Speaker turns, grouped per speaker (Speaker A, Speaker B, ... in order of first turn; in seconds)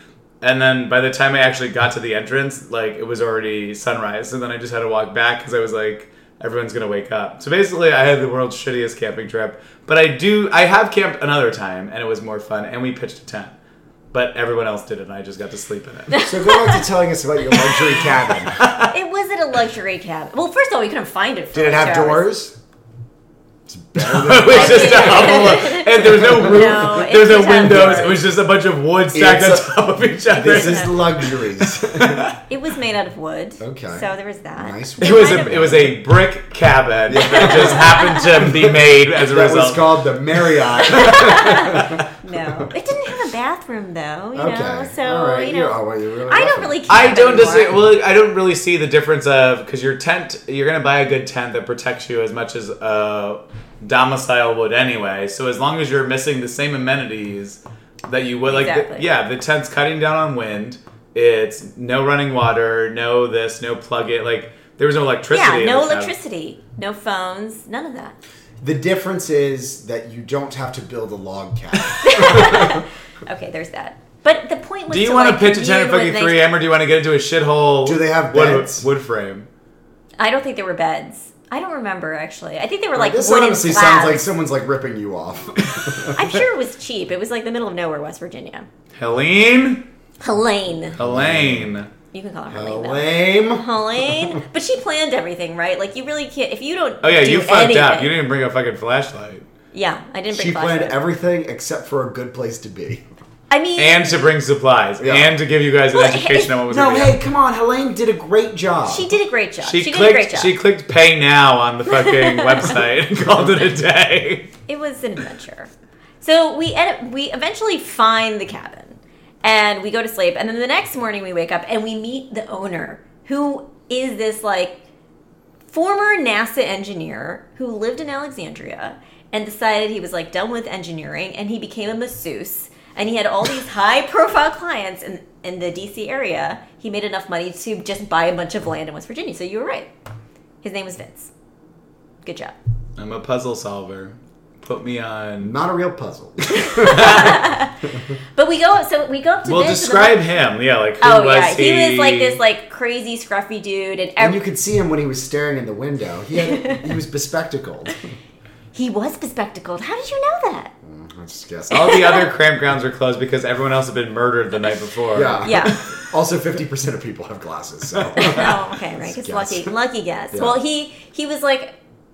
Speaker A: 0.4-13.5, 14.1-16.3, 18.4-18.9, 24.0-32.3, 35.0-40.0, 46.9-66.1, 71.8-72.0, 74.9-79.5, 89.0-89.8, 90.9-91.9, 97.0-99.5, 103.8-107.2, 109.6-114.5, 143.0-145.5, 146.7-147.4, 149.4-152.4, 161.7-165.8
Speaker B: 16.1-16.8, 18.9-22.3, 24.5-28.2, 30.5-31.0, 32.5-35.8, 37.3-38.3, 40.8-47.9, 58.5-59.1, 65.3-68.2, 72.0-76.4, 80.2-84.2, 86.1-88.7, 90.2-91.0, 92.1-98.1, 99.7-101.0, 103.5-104.3, 105.9-106.5, 108.9-110.5, 111.9-112.8, 114.7-115.7, 116.2-124.8, 125.7-139.9, 140.6-141.3, 142.2-142.5, 146.5-147.7, 148.3-150.2, 151.0-154.4, 156.5-156.8, 158.7-160.7, 161.7-162.2, 165.4-165.8, 168.2-171.8
Speaker C: 16.2-18.6, 21.5-22.5, 23.7-25.6, 26.2-26.6, 27.7-28.0, 29.1-29.7, 30.3-32.3, 33.6-35.9, 37.1-42.7, 44.3-47.8, 68.6-72.8, 77.8-78.8, 83.0-86.4, 91.0-91.7, 92.5-94.4, 100.3-103.0, 105.0-105.4, 106.7-109.1, 145.4-147.4, 154.2-158.0, 160.8-161.9, 165.1-169.7, 170.3-170.6